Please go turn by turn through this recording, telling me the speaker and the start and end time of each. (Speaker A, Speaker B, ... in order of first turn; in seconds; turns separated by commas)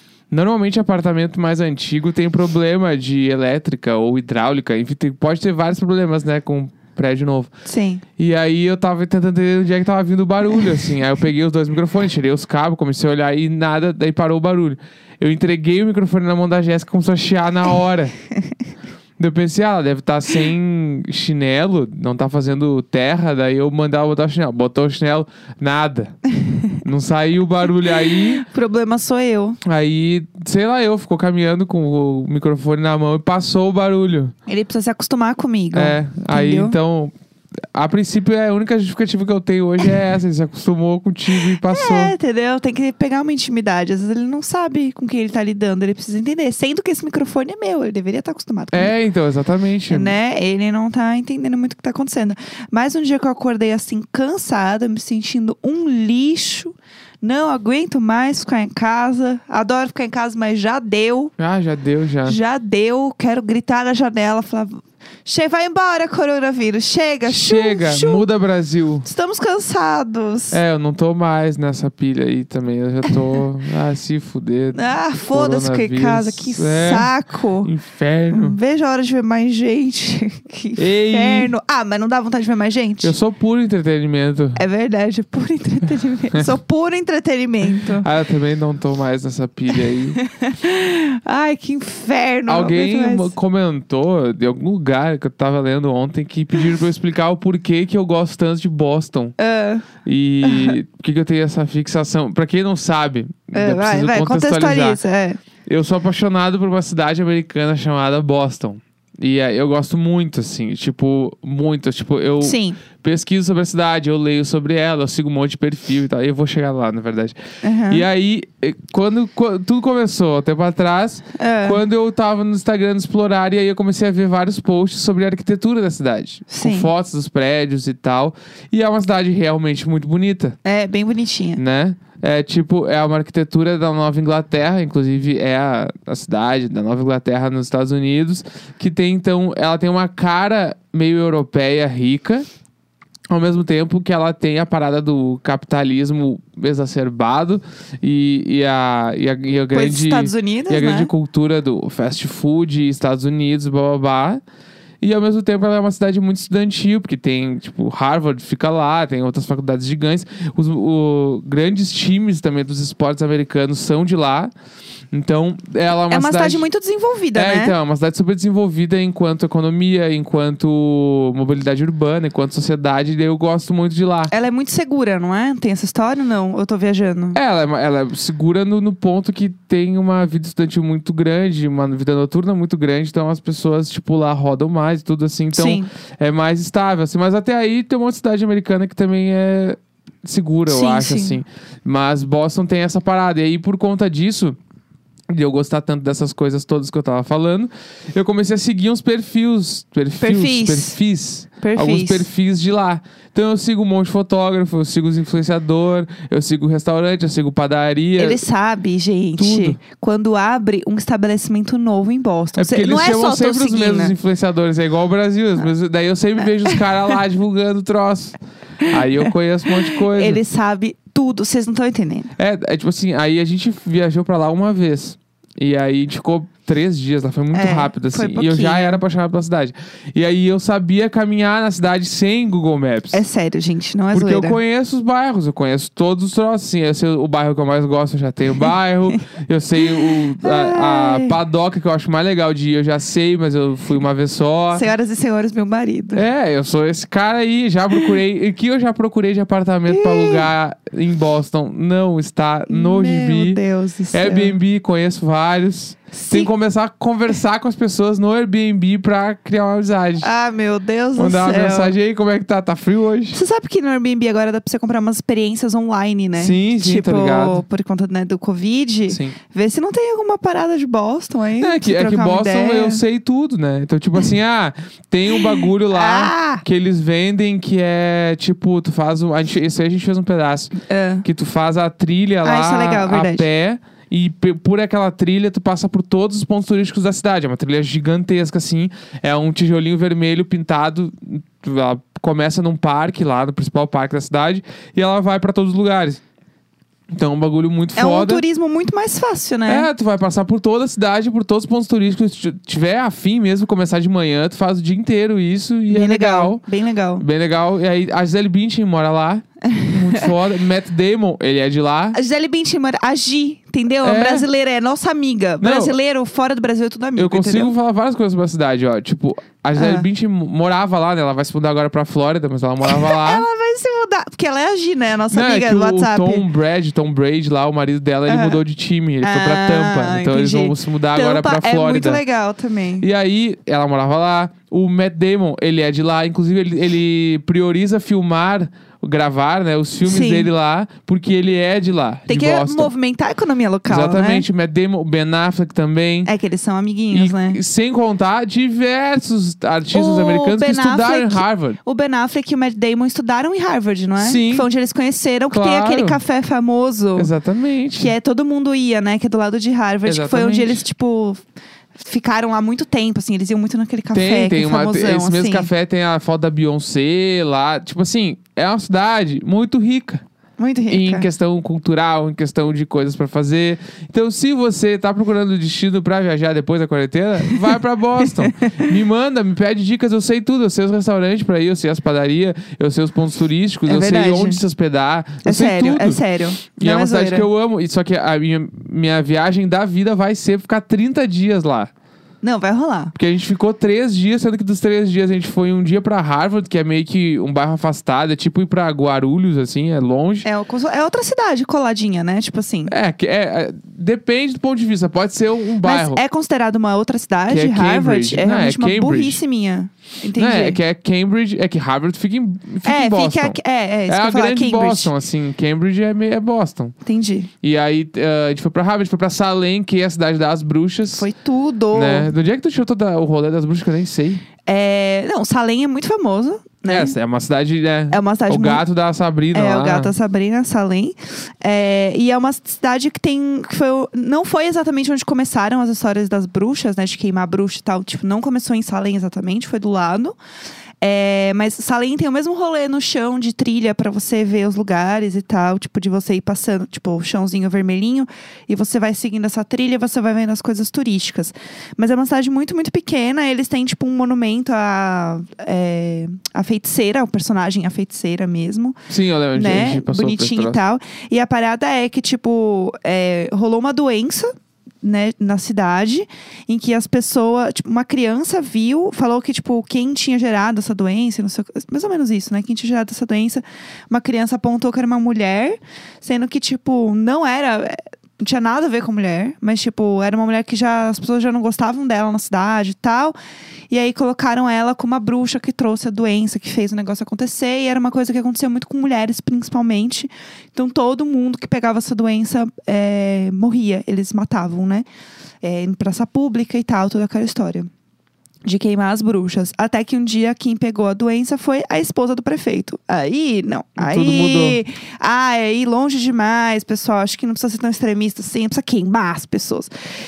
Speaker A: 0.3-7.5, Speaker B: 7.6-8.0, Speaker A: 8.2-18.1, Speaker A: 19.2-26.2, Speaker B: 26.4-26.8, Speaker A: 26.8-28.4, Speaker B: 27.9-29.6, Speaker A: 29.6-34.3, Speaker B: 34.5-36.8, Speaker A: 35.7-37.1, Speaker A: 37.7-42.1, Speaker B: 41.3-49.0, Speaker A: 48.7-50.2, Speaker B: 49.9-61.3, Speaker A: 61.4-62.4, Speaker B: 62.2-68.2, Speaker A: 67.3-69.1, Speaker B: 69.0-70.6, Speaker A: 70.5-77.1, Speaker B: 74.7-77.7, Speaker A: 77.6-78.6, Speaker B: 78.3-83.2, Speaker A: 80.8-81.5, Speaker A: 83.0-84.6, Speaker B: 84.6-88.1, Speaker A: 87.8-90.2, Speaker B: 89.7-93.3, Speaker A: 92.5-99.3, Speaker B: 99.4-99.9, Speaker A: 100.0-105.0, Speaker B: 100.4-100.8, Speaker B: 103.5-105.4, Speaker A: 105.7-117.4, Speaker B: 112.4-112.8, Speaker B: 117.6-118.1, Speaker A: 117.9-130.6, Speaker B: 121.4-121.8, Speaker B: 126.5-126.9, Speaker B: 130.7-131.6, Speaker A: 131.6-142.5, Speaker A: 143.3-154.4, Speaker B: 149.7-151.1, Speaker A: 155.0-164.5, Speaker A: 165.1-166.7, Speaker B: 166.1-167.8, Speaker A: 167.3-174.3, Speaker B: 174.3-177.4, Speaker A: 177.3-194.6, Speaker B: 185.5-185.9, Speaker B: 190.7-191.4, Speaker A: 195.3-208.4, Speaker B: 200.2-201.0, Speaker B: 201.6-202.3, Speaker B: 208.2-214.2, Speaker A: 209.4-209.8, Speaker A: 212.6-220.4, Speaker B: 216.7-217.2, Speaker B: 218.8-222.3, Speaker A: 222.4-233.2, Speaker B: 227.5-229.0, Speaker B: 233.1-234.6, Speaker A: 234.1-244.8, Speaker B: 238.6-239.2, Speaker B: 239.8-241.4, Speaker B: 244.7-246.2, Speaker A: 246.1-253.6, Speaker B: 249.9-250.5, Speaker B: 252.7-254.6, Speaker A: 254.1-260.3, Speaker B: 256.1-256.5, Speaker B: 260.2-261.9, Speaker A: 261.2-263.4, Speaker B: 263.3-273.0, Speaker A: 266.4-267.6, Speaker A: 269.1-269.4, Speaker A: 271.6-296.2, Speaker B: 275.4-276.6, Speaker B: 280.8-281.2, Speaker B: 282.4-283.5, Speaker A: 297.1-298.4, Speaker B: 297.9-299.9, Speaker A: 299.7-306.6, Speaker B: 305.9-307.2, Speaker A: 307.2-312.2, Speaker B: 309.7-310.3, Speaker B: 312.1-317.8, Speaker A: 314.0-314.4, Speaker A: 315.6-315.9, Speaker A: 317.2-323.4, Speaker B: 319.8-320.1, Speaker B: 322.8-326.4, Speaker A: 325.3-332.2, Speaker B: 328.2-328.6, Speaker B: 329.2-333.1, Speaker A: 333.0-342.9, Speaker B: 340.0-340.5, Speaker B: 342.3-344.4, Speaker A: 343.9-346.3, Speaker B: 346.2-347.6, Speaker A: 347.1-351.8, Speaker B: 349.9-357.3, Speaker A: 354.2-354.7, Speaker A: 355.5-356.2, Speaker A: 357.2-358.1, Speaker B: 357.9-361.4, Speaker A: 360.1-360.8, Speaker B: 361.9-365.7, Speaker A: 364.1-370.2, Speaker B: 370.6-371.3, Speaker A: 370.9-386.2, Speaker B: 377.4-378.9, Speaker B: 383.9-384.6, Speaker B: 385.4-387.5, Speaker A: 386.8-391.9, Speaker B: 392.4-393.1, Speaker A: 393.2-400.5, Speaker B: 400.4-402.9, Speaker A: 402.9-406.2, Speaker B: 405.8-410.8, Speaker A: 407.5-409.4, Speaker A: 410.4-413.6, Speaker B: 412.8-415.1, Speaker A: 414.1-416.9, Speaker B: 417.1-417.5, Speaker A: 417.6-421.3, Speaker B: 421.1-422.3, Speaker A: 421.9-424.4, Speaker B: 424.7-427.1, Speaker A: 426.9-430.1, Speaker B: 428.1-428.9, Speaker B: 429.5-440.4, Speaker B: 441.0-459.0, Speaker A: 459.1-460.8, Speaker B: 459.5-464.5, Speaker B: 465.0-483.4, Speaker B: 483.9-495.1, Speaker B: 495.6-497.9, Speaker B: 498.6-509.9, Speaker A: 504.0-504.8